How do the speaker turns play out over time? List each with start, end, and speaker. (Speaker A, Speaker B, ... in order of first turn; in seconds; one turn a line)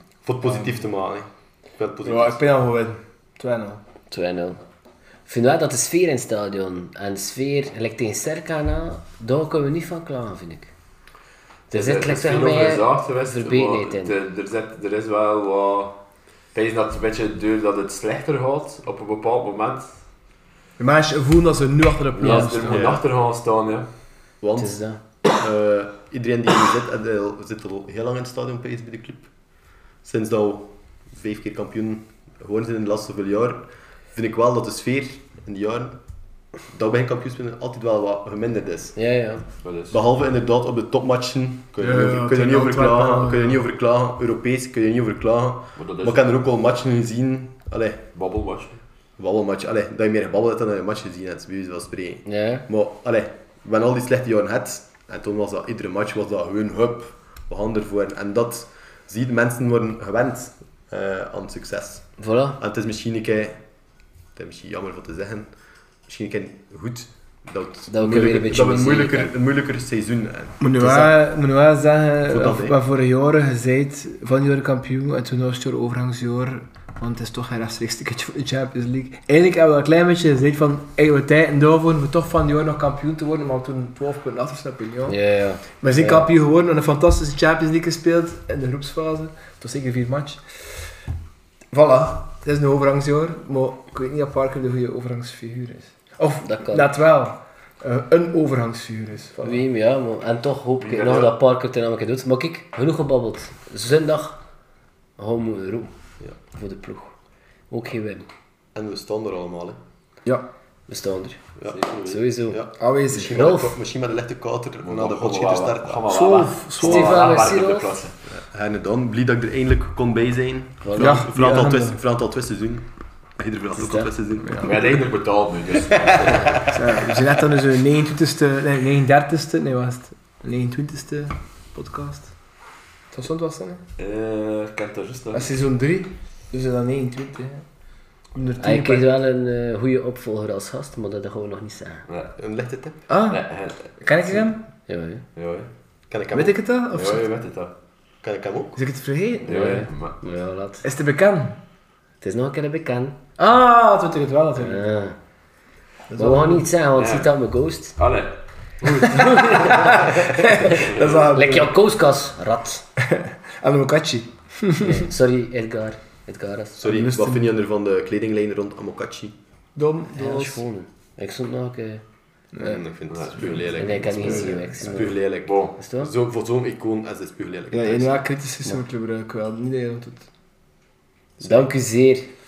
Speaker A: 0.2-2.4
Speaker B: 2.0-3.8
Speaker C: 4.1-4.6
Speaker C: 5.3-10.7
Speaker C: 11.7-14.2
Speaker D: 11.7-16.0
Speaker D: 16.5-19.9
Speaker B: 20.8-22.8
Speaker D: 22.2-23.9
Speaker C: 22.2-22.7
Speaker A: 22.7-23.0
Speaker A: 24.4-24.8
Speaker C: 24.6-25.0
Speaker A: 25.3-29.3
Speaker A: 30.0-33.6
Speaker A: 34.1-36.0
Speaker A: 36.7-39.0
Speaker C: 39.0-39.4
Speaker D: 39.6-40.0
Speaker A: 39.9-48.0
Speaker B: 41.8-43.6
Speaker D: 45.8-46.2
Speaker D: 48.1-48.8
Speaker A: 49.2-63.6
Speaker C: 52.3-52.7
Speaker C: 62.2-62.6
Speaker A: 64.4-65.5
Speaker A: 66.1-70.6
Speaker C: 67.9-69.3
Speaker B: 70.6-85.2
Speaker C: 70.8-71.2
Speaker A: 72.3-72.8
Speaker C: 85.1-86.3
Speaker B: 85.8-90.8
Speaker B: 91.7-99.6
Speaker C: 96.4-96.9
Speaker C: 99.4-104.4
Speaker D: 100.8-101.4
Speaker C: 105.2-105.9
Speaker C: 106.5-107.2
Speaker C: 107.7-108.3
Speaker A: 108.8-109.8
Speaker C: 110.9-111.4
Speaker D: 111.7-112.2
Speaker C: 112.1-112.6
Speaker A: 112.5-116.3
Speaker B: 112.8-113.5
Speaker C: 113.2-113.8
Speaker D: 114.8-118.2
Speaker B: 116.1-117.3
Speaker C: 116.8-118.0
Speaker A: 118.3-125.0
Speaker C: 120.8-121.3
Speaker B: 121.0-122.0
Speaker C: 123.8-124.1
Speaker D: 124.6-126.7
Speaker A: 125.9-127.2
Speaker C: 126.3-126.5
Speaker B: 126.7-132.3
Speaker B: 133.1-133.8
Speaker D: 134.0-135.6
Speaker B: 135.3-137.6
Speaker B: 138.3-139.1
Speaker C: 138.6-142.1
Speaker D: 142.1-142.3
Speaker A: 142.4-143.0
Speaker B: 143.1-143.4
Speaker D: 143.3-144.5
Speaker B: 144.0-144.6
Speaker C: 144.9-145.2
Speaker D: 145.4-145.7
Speaker A: 146.1-146.6
Speaker B: 146.3-147.3
Speaker D: 146.9-147.7
Speaker A: 148.2-148.8
Speaker B: 148.8-149.8
Speaker D: 149.4-150.2
Speaker C: 149.5-150.8
Speaker B: 150.8-151.6
Speaker C: 152.2-153.2
Speaker B: 153.4-154.8
Speaker C: 154.6-155.2
Speaker B: 156.1-156.7
Speaker C: 156.2-158.0
Speaker D: 156.9-157.3
Speaker D: 158.0-161.3
Speaker C: 159.1-160.0
Speaker B: 159.6-161.7
Speaker C: 160.6-162.9
Speaker B: 163.1-165.1
Speaker C: 164.8-166.8
Speaker A: 166.8-169.4
Speaker B: 166.9-167.5
Speaker B: 169.8-170.6
Speaker C: 170.1-172.0
Speaker B: 172.5-172.8
Speaker A: 172.6-178.2
Speaker D: 173.1-174.5
Speaker C: 173.8-175.2
Speaker B: 174.2-174.6
Speaker D: 175.4-175.7
Speaker C: 175.8-176.1
Speaker B: 177.7-180.2
Speaker C: 181.4-182.3